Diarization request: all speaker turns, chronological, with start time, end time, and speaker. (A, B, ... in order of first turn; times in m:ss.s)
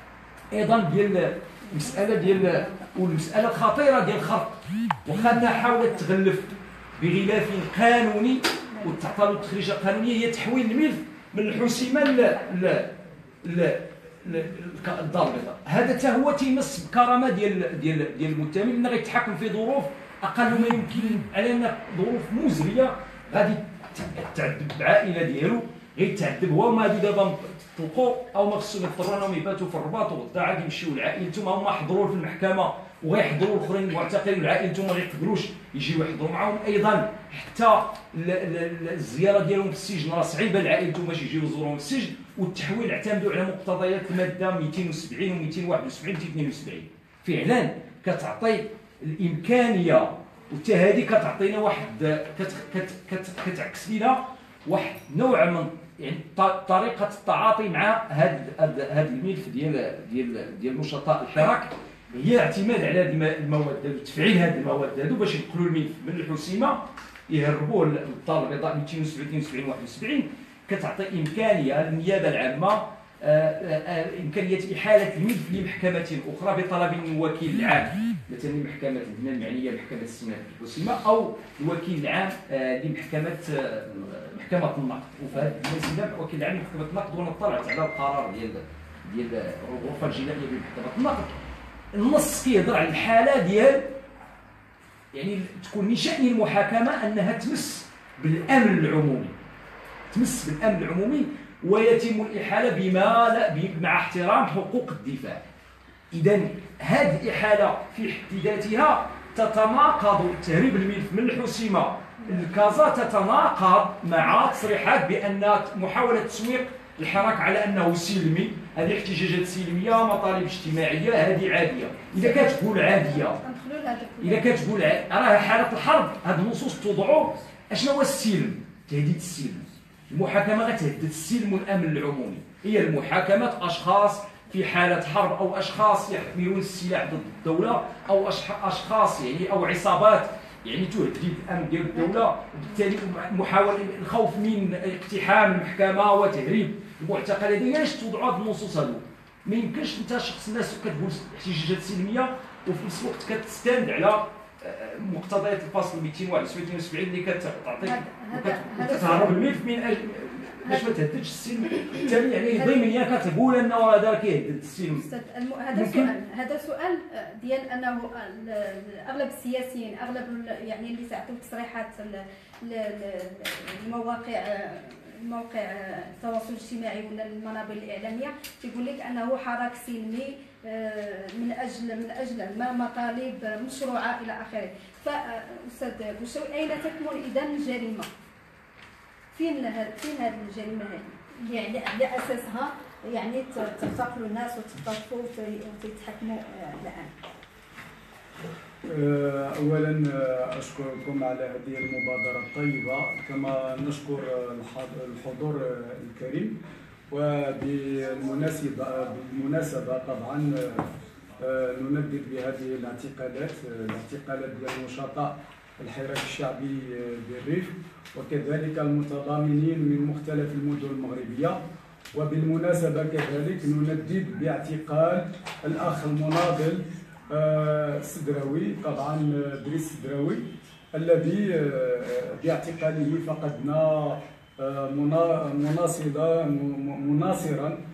0:00.5-1:31.3 A
0:01.7-0:02.9 B
0:08.8-0:09.0 B
0:12.2-0:12.5 B
1:31.9-1:33.9 A
1:35.1-1:39.3 A
1:40.1-1:45.4 A
1:46.1-2:03.4 A
2:02.2-2:02.6 B
2:03.3-2:04.7 B
2:04.2-2:45.0 A
2:37.8-2:39.5 B
2:40.6-2:41.0 B
2:42.5-2:42.8 B
2:44.9-3:08.1 B
2:45.7-2:46.1 A
3:09.3-3:17.1 B
3:18.9-3:26.6 C
3:27.1-3:41.6 C
3:42.1-3:57.8 C